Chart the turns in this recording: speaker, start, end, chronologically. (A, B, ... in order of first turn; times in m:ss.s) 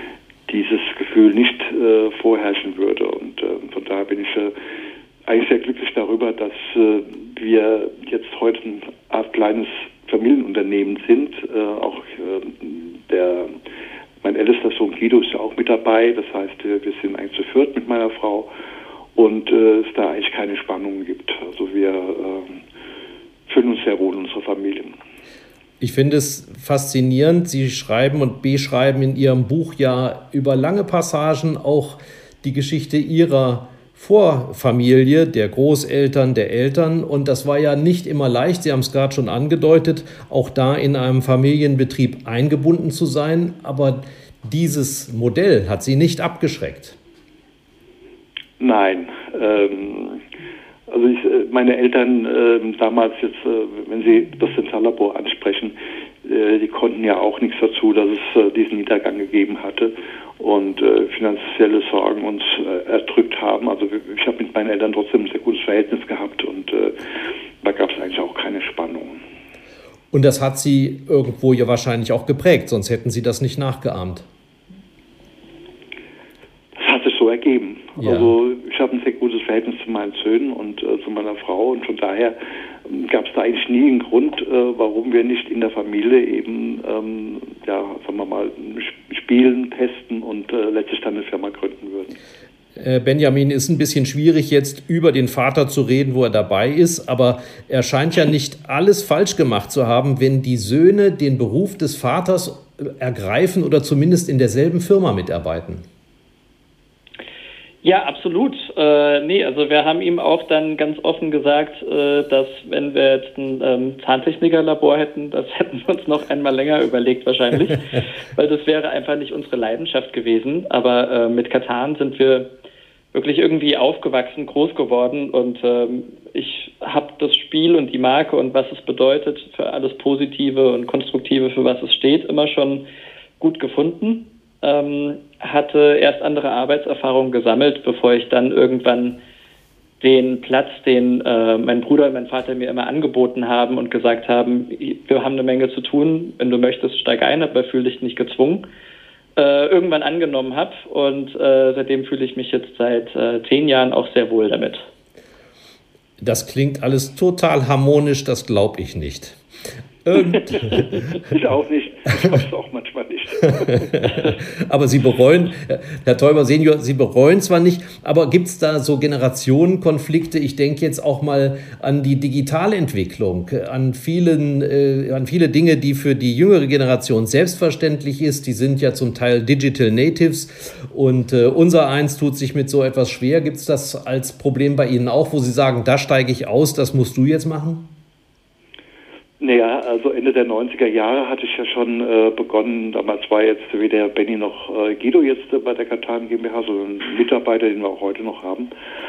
0:00.5-0:04.5 A
0:05.3-0:13.5 A
0:14.2-0:18.5 A
0:19.2-0:22.6 A
0:23.5-0:24.9 A
0:25.8-0:47.0 B
0:48.6-0:50.2 A
0:50.9-1:06.9 A
1:07.6-1:09.2 A
1:10.1-1:14.3 B
1:16.8-1:32.1 A
1:18.0-1:18.3 B
1:32.8-1:45.8 B
1:47.8-2:02.5 C
2:03.1-2:12.8 C
2:13.4-2:19.2 C
2:20.0-2:28.6 C
2:29.4-2:34.9 C
2:36.2-2:39.4 B
2:40.0-2:41.0 B
2:40.3-2:44.2 A
2:43.6-3:07.9 B
3:09.4-3:18.7 A